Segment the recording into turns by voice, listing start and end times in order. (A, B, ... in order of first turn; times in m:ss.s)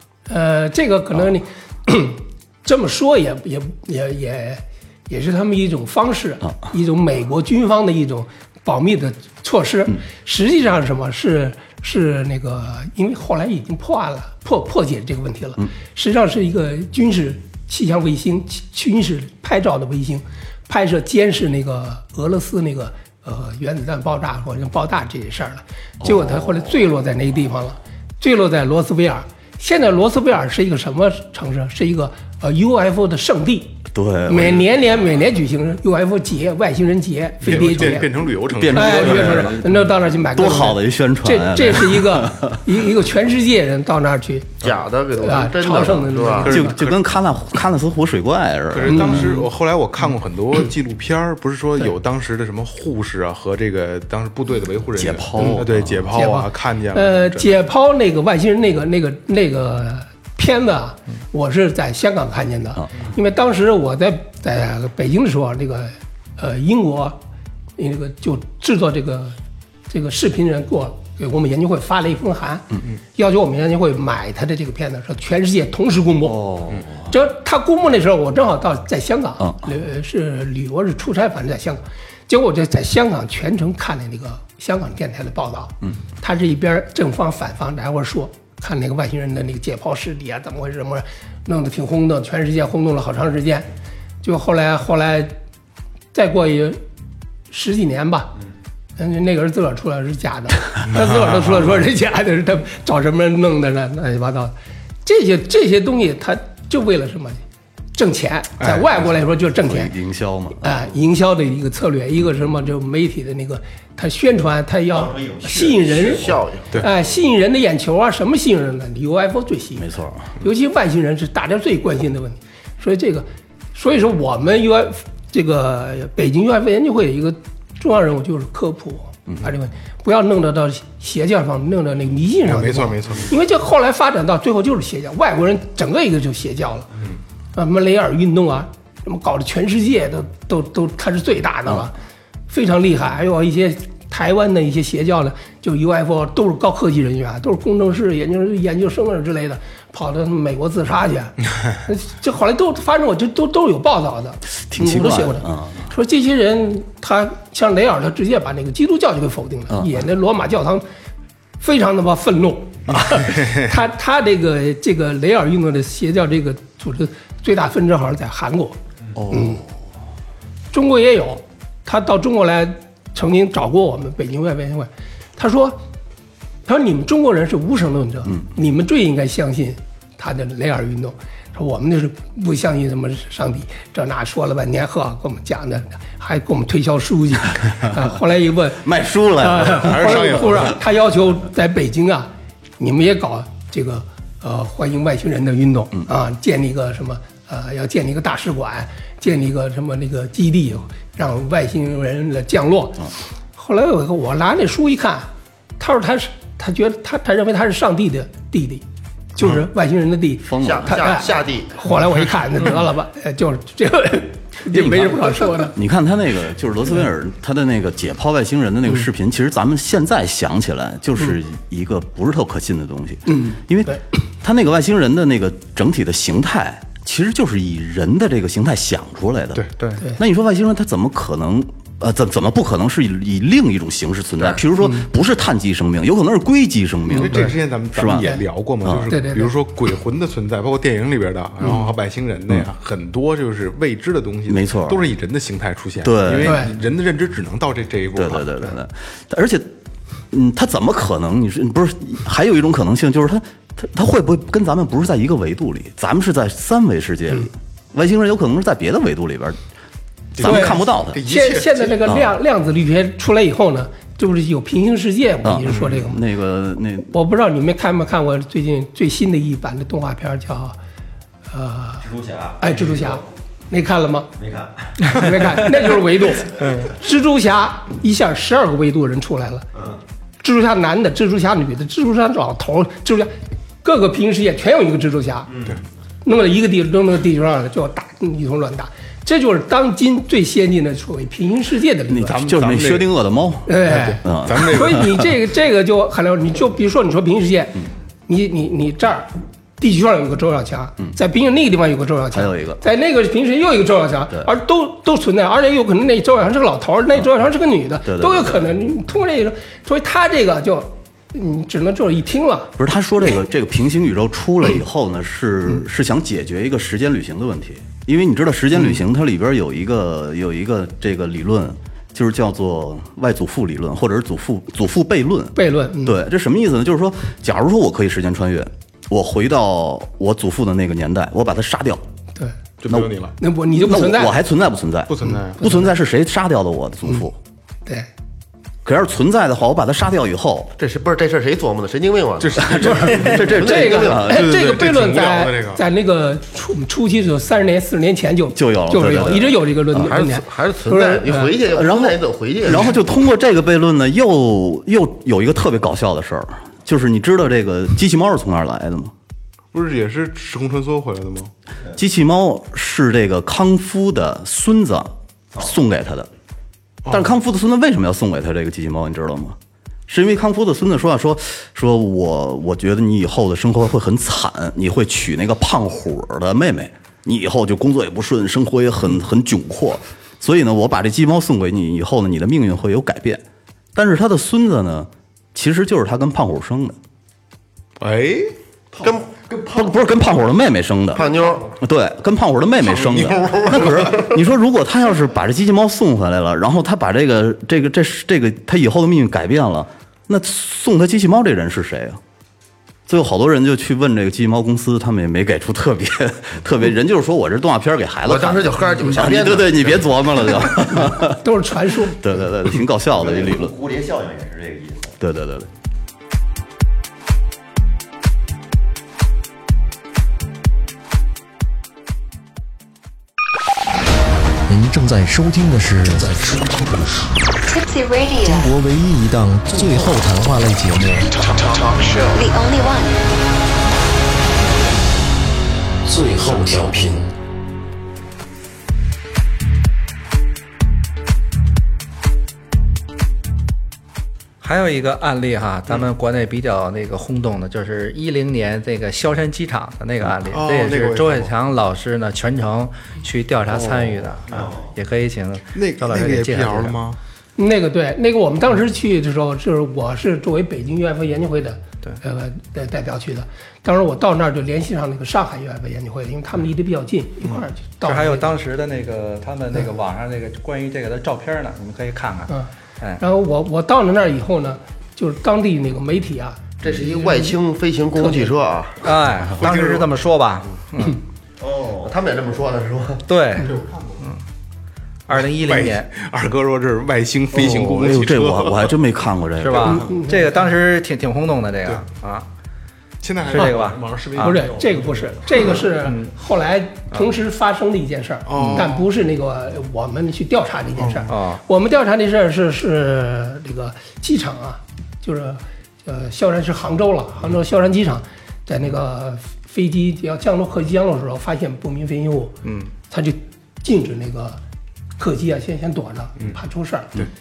0:00.3-0:33.8 A
0:26.0-0:26.7 B
0:33.9-0:34.7 B
0:34.3-0:38.1 A
0:37.4-0:39.6 C
0:38.5-0:42.6 B
0:38.7-0:44.6 A
0:44.6-0:46.6 D
0:45.2-0:46.8 A
0:46.4-0:47.0 C
0:46.5-0:49.4 B
0:48.7-0:57.6 C
0:48.9-0:49.5 A
0:55.0-0:56.2 B
0:55.4-1:07.2 A
1:07.8-1:09.4 A
1:09.9-1:16.4 A
1:16.2-1:17.1 B
1:17.1-1:33.7 A
1:34.2-1:35.4 A
1:36.1-1:36.8 A
1:37.5-1:38.3 A
1:39.0-1:44.5 A
1:45.0-1:47.4 A
1:48.0-1:49.9 A
1:48.6-1:48.9 C
1:49.6-1:50.8 B
1:50.6-1:59.9 A
1:54.9-1:56.4 E
1:56.1-1:56.7 D
1:59.8-2:00.3 B
2:00.4-2:16.9 A
2:12.4-2:13.3 C
2:17.6-2:22.0 A
2:22.5-2:40.8 A
2:34.7-2:35.9 B
2:41.6-2:48.8 A
2:43.2-2:43.6 C
2:49.2-2:49.7 B
2:49.3-2:49.6 A
2:50.7-2:55.8 A
2:56.7-3:08.8 A
3:08.8-3:10.6 B
3:09.4-3:28.8 A
3:09.7-3:10.8 C
3:29.4-3:35.8 A
3:30.4-3:31.3 B
3:30.6-3:31.9 D
3:34.7-3:49.6 B
3:43.3-3:44.0 A
3:50.2-3:59.1 B
3:54.8-3:55.1 A
3:57.1-4:08.8 C
3:59.1-3:59.5 A
4:04.5-4:05.0 B
4:06.0-4:06.6 B
4:06.4-4:06.7 A
4:08.2-4:09.7 B
4:10.3-4:19.6 B
4:20.4-4:21.2 B
4:20.4-4:22.1 C
4:20.4-4:26.2 A
4:25.4-4:27.1 B
4:27.1-4:30.8 A
4:31.5-4:32.0 A
4:32.0-4:33.2 E
4:32.6-4:34.3 A
4:34.4-4:35.6 E
4:35.1-4:39.7 A
4:40.4-4:43.3 A
4:43.8-4:45.5 A
4:45.5-4:45.8 E
4:46.2-4:52.4 A
4:52.1-4:55.2 B
4:52.3-4:53.1 C
4:53.7-5:12.7 A
4:53.9-4:55.0 C
5:02.3-5:02.8 B
5:08.1-5:08.6 B
5:12.8-5:32.0 B
5:25.6-5:26.2 A
5:32.8-5:33.4 C
5:33.4-5:34.4 A
5:33.7-5:37.4 B
5:35.1-5:35.6 C
5:35.2-5:35.9 A
5:38.8-5:40.7 B
5:40.8-5:44.3 D
5:42.4-5:43.6 C
5:42.8-5:44.5 B
5:42.8-5:51.5 A
5:44.1-5:45.8 C
5:48.6-5:50.1 B
5:50.0-5:52.9 D
5:51.7-5:59.1 B
5:59.7-6:01.5 C
6:01.9-6:06.3 B
6:07.0-6:07.4 C
6:07.1-6:09.6 B
6:10.1-6:23.4 B
6:24.0-6:27.0 B
6:28.0-6:28.5 C
6:28.9-6:29.9 E
6:29.0-6:29.4 D
6:29.7-6:31.3 B
6:31.2-6:31.7 D
6:31.8-6:42.2 B
6:32.9-6:34.2 C
6:43.1-6:51.4 B
6:48.2-6:49.9 D
6:51.0-6:52.2 A
6:52.1-6:53.7 B
6:53.2-6:55.2 E
6:55.2-6:55.7 B
7:04.7-7:07.4 F
7:07.7-7:08.7 G
7:08.4-7:11.5 F
7:12.3-7:13.2 G
7:16.0-7:17.3 F
7:24.6-7:37.0 H
7:30.5-7:31.5 C
7:33.8-7:34.6 C
7:34.5-7:34.9 E
7:35.8-7:37.2 C
7:37.6-7:48.5 A
7:48.0-7:53.2 H
7:52.5-7:57.5 A
7:56.8-7:59.0 D
7:58.2-7:58.5 A
7:59.0-8:01.2 H
7:59.6-8:00.1 C
8:01.6-8:02.1 E
8:02.0-8:03.2 D
8:03.3-8:04.4 H
8:03.6-8:04.3 C
8:05.3-8:06.1 H
8:05.3-8:09.0 C
8:07.6-8:10.0 B
8:09.6-8:12.5 H
8:09.8-8:10.7 A
8:13.2-8:15.7 C
8:13.5-8:14.6 H
8:14.4-8:32.6 A
8:16.0-8:16.3 H
8:18.5-8:19.1 C
8:18.6-8:18.8 H
8:21.0-8:21.3 C
8:21.3-8:21.6 H
8:32.6-8:32.9 H
8:33.1-8:34.6 A
8:35.2-8:37.1 A